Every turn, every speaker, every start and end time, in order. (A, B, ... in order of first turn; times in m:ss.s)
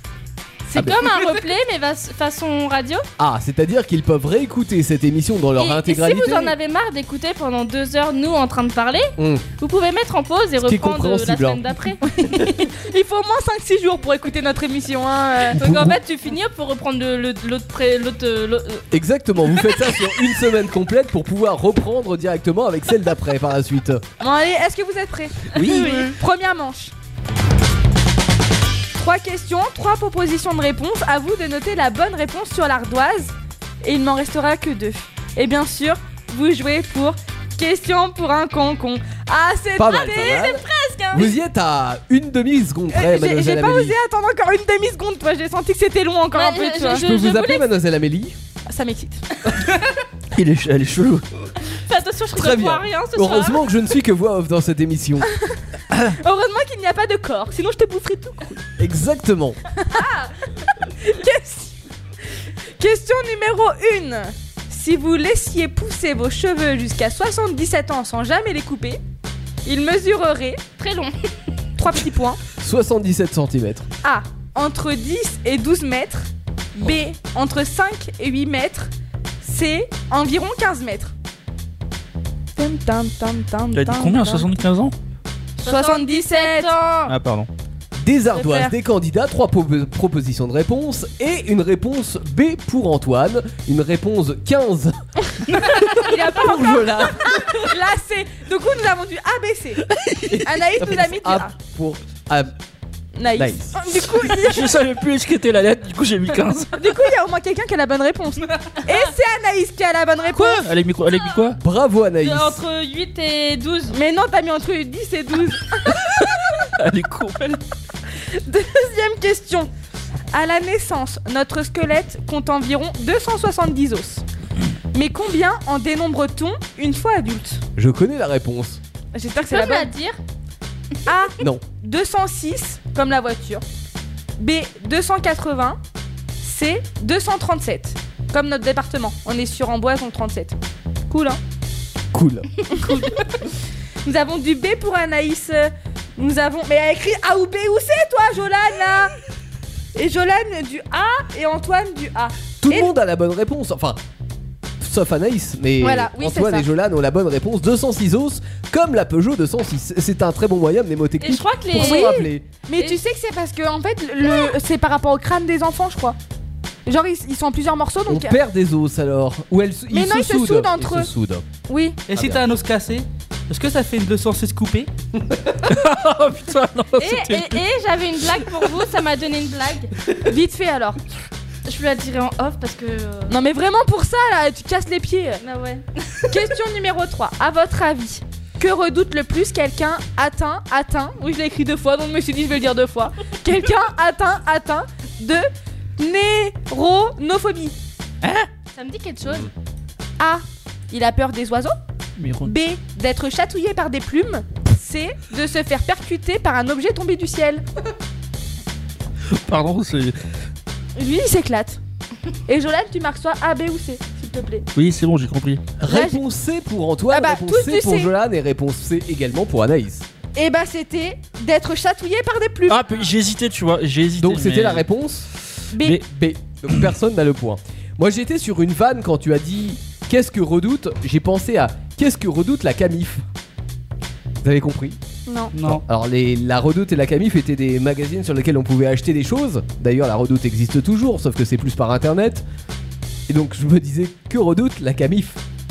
0:00.7-0:03.1 A
0:03.2-0:06.5 B
0:05.6-0:12.5 A
0:09.2-0:09.5 B
0:10.6-0:11.6 B
0:12.1-0:15.6 C
0:15.5-0:18.8 A
0:15.5-0:16.0 B
0:18.9-0:24.0 B
0:24.2-0:26.9 C
0:25.6-0:26.1 A
0:25.6-0:25.9 D
0:29.0-0:40.5 C
0:39.8-0:44.0 B
0:40.0-0:41.3 A
0:42.9-0:47.0 C
0:46.3-0:47.7 A
0:46.9-0:48.4 B
0:48.7-0:49.2 C
0:50.3-0:51.2 D
0:51.8-0:53.6 A
0:52.3-0:55.3 B
0:56.0-0:58.6 C
0:58.8-0:59.6 B
0:59.8-1:01.7 C
1:02.8-1:09.0 C
1:09.6-1:10.6 C
1:10.8-1:11.2 A
1:11.8-1:12.4 C
1:12.6-1:13.8 B
1:14.0-1:21.1 C
1:22.6-1:24.5 C
1:23.7-1:24.9 D
1:25.6-1:26.7 C
1:25.6-1:27.1 A
1:27.0-1:27.5 D
1:28.0-1:35.0 B
1:28.3-1:28.7 C
1:35.5-1:39.8 C
1:35.9-1:37.5 B
1:39.9-1:40.4 D
1:40.3-1:42.5 B
1:40.4-1:41.5 C
1:43.2-1:44.8 C
1:43.4-1:43.7 B
1:44.2-1:46.8 D
1:46.7-1:50.6 C
1:50.3-1:51.6 D
1:51.5-1:52.6 B
1:52.2-1:54.0 A
1:53.9-1:56.0 C
1:56.1-1:57.6 D
1:58.3-1:59.7 C
2:00.3-2:04.2 C
2:04.9-2:07.6 C
2:07.8-2:08.8 B
2:09.1-2:09.9 C
2:09.4-2:10.2 A
2:11.0-2:13.6 C
2:14.4-2:15.8 C
2:16.4-2:20.6 C
2:21.1-2:21.4 C
2:22.1-2:22.5 B
2:22.7-2:23.2 C
2:22.8-2:23.2 A
2:24.0-2:29.1 C
2:29.9-2:32.9 C
2:32.6-2:34.0 B
2:34.8-2:42.4 B
2:35.8-2:36.7 C
2:41.2-2:42.2 A
2:41.7-2:46.2 C
2:46.8-2:48.4 C
2:48.1-2:51.4 B
2:49.9-2:51.1 C
2:51.7-2:52.0 C
2:52.1-2:54.9 E
2:52.1-2:52.4 B
2:55.6-2:57.6 D
2:57.0-2:59.9 A
3:00.2-3:01.0 C
3:01.6-3:03.4 A
3:03.3-3:05.4 C
3:05.4-3:06.2 A
3:06.3-3:17.7 C
3:18.2-3:18.5 D
3:18.7-3:19.5 A
3:20.2-3:21.8 C
3:22.2-3:22.5 D
3:22.4-3:27.6 C
3:29.3-3:30.2 D
3:31.0-3:31.8 C
3:32.5-3:34.7 C
3:34.7-3:35.7 D
3:35.8-3:40.0 B
3:35.8-3:36.2 C
3:37.1-3:38.1 C
3:40.3-3:43.1 C
3:42.7-3:44.8 D
3:44.2-3:45.3 B
3:45.7-3:46.0 C
3:45.9-3:53.2 B
3:54.4-3:55.0 B
3:55.3-3:55.5 C
3:55.5-3:55.8 E
3:55.6-4:02.4 B
4:03.3-4:05.4 B